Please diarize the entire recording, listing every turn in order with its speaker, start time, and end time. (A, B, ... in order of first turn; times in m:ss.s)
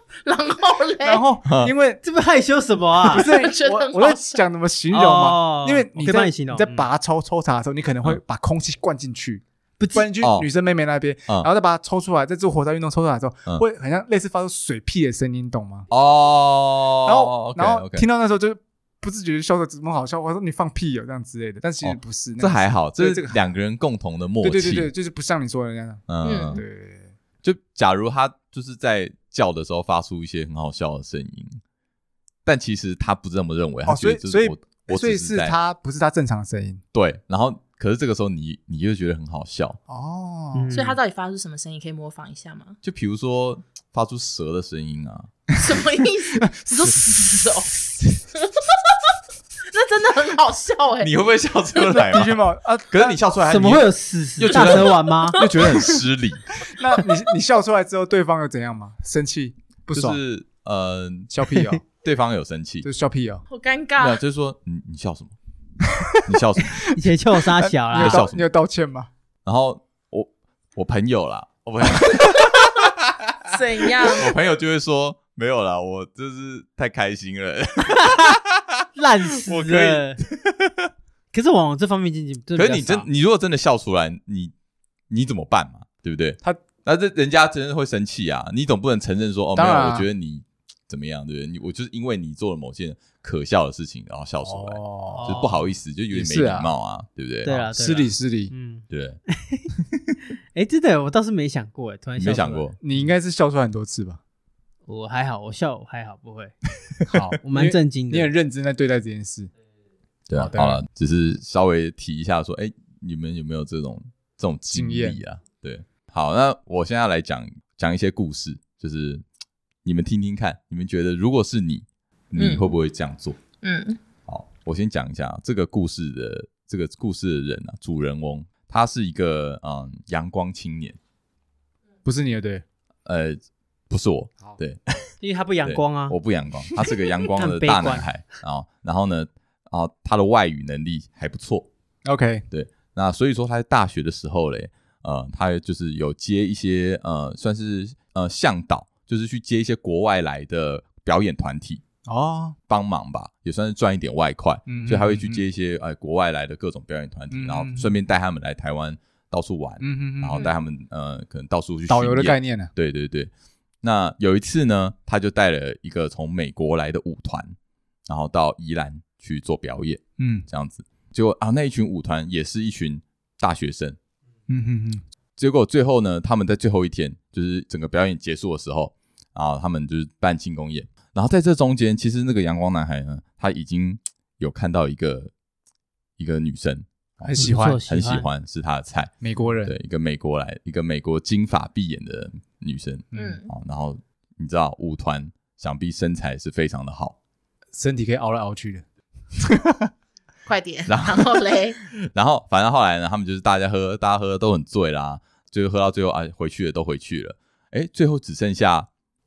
0:00.2-0:01.2 A
0:01.0-0:02.0 B
0:01.4-0:01.7 C
0:02.0-0:03.3 D
0:03.0-0:09.4 B
0:03.2-0:04.4 A
0:04.9-0:06.9 D
0:09.8-0:10.1 D
0:09.9-0:15.9 B
0:10.2-0:10.5 C
0:15.9-0:18.1 C
0:17.0-0:23.4 B
0:21.8-0:24.9 C
0:24.4-0:27.1 B
0:26.1-0:26.6 C
0:26.2-0:26.6 A
0:27.4-0:31.6 C
0:32.4-0:35.6 C
0:33.9-0:36.8 B
0:36.9-0:39.8 C
0:39.9-0:40.8 B
0:40.5-0:41.0 D
0:40.7-0:42.8 A
0:42.8-0:45.5 C
0:45.6-0:47.8 A
0:46.4-0:47.4 B
0:48.4-0:48.7 A
0:49.7-0:51.2 A
0:51.0-0:56.5 C
0:51.8-0:53.2 B
0:53.5-0:55.4 D
0:55.3-0:55.9 A
0:56.6-1:00.2 B
0:59.9-1:01.3 C
1:01.3-1:01.8 B
1:01.5-1:01.8 D
1:02.0-1:02.9 C
1:02.8-1:03.4 B
1:03.5-1:04.2 A
1:04.0-1:05.4 C
1:06.2-1:06.8 C
1:06.9-1:08.2 D
1:07.6-1:09.1 B
1:08.0-1:08.4 C
1:09.4-1:18.8 C
1:13.5-1:14.3 A
1:18.0-1:18.4 D
1:19.0-1:20.2 D
1:19.5-1:20.9 C
1:21.3-1:23.1 D
1:22.6-1:24.5 C
1:25.1-1:37.7 C
1:29.6-1:30.1 B
1:34.4-1:35.3 B
1:35.1-1:35.6 D
1:36.1-1:36.7 B
1:37.4-1:39.7 D
1:37.7-1:38.5 B
1:38.9-1:39.2 C
1:40.5-1:42.7 D
1:42.2-1:42.8 C
1:42.8-1:44.2 B
1:44.9-1:46.5 D
1:47.1-1:49.5 B
1:47.4-1:48.3 D
1:50.3-1:59.2 C
1:50.4-1:50.8 B
1:54.7-1:55.2 B
1:59.8-2:03.4 C
2:02.4-2:02.7 A
2:03.6-2:04.0 A
2:04.3-2:11.0 C
2:12.0-2:12.6 B
2:13.1-2:15.1 C
2:15.2-2:16.2 D
2:15.6-2:21.7 C
2:17.3-2:18.1 D
2:22.0-2:22.4 B
2:22.5-2:31.8 C
2:32.1-2:32.6 B
2:32.7-2:43.3 C
2:34.7-2:35.4 B
2:37.3-2:37.9 B
2:39.8-2:40.5 B
2:41.9-2:42.7 B
2:43.8-2:47.6 C
2:48.1-2:54.0 C
2:50.2-2:50.5 B
2:54.5-2:55.0 B
2:55.4-3:05.3 C
3:06.2-3:09.1 C
3:07.2-3:07.8 B
3:07.4-3:08.3 D
3:09.2-3:09.7 B
3:09.6-3:17.2 C
3:13.1-3:13.4 B
3:13.2-3:13.5 A
3:17.7-3:18.8 B
3:19.4-3:19.9 B
3:20.5-3:21.8 A
3:20.9-3:28.9 C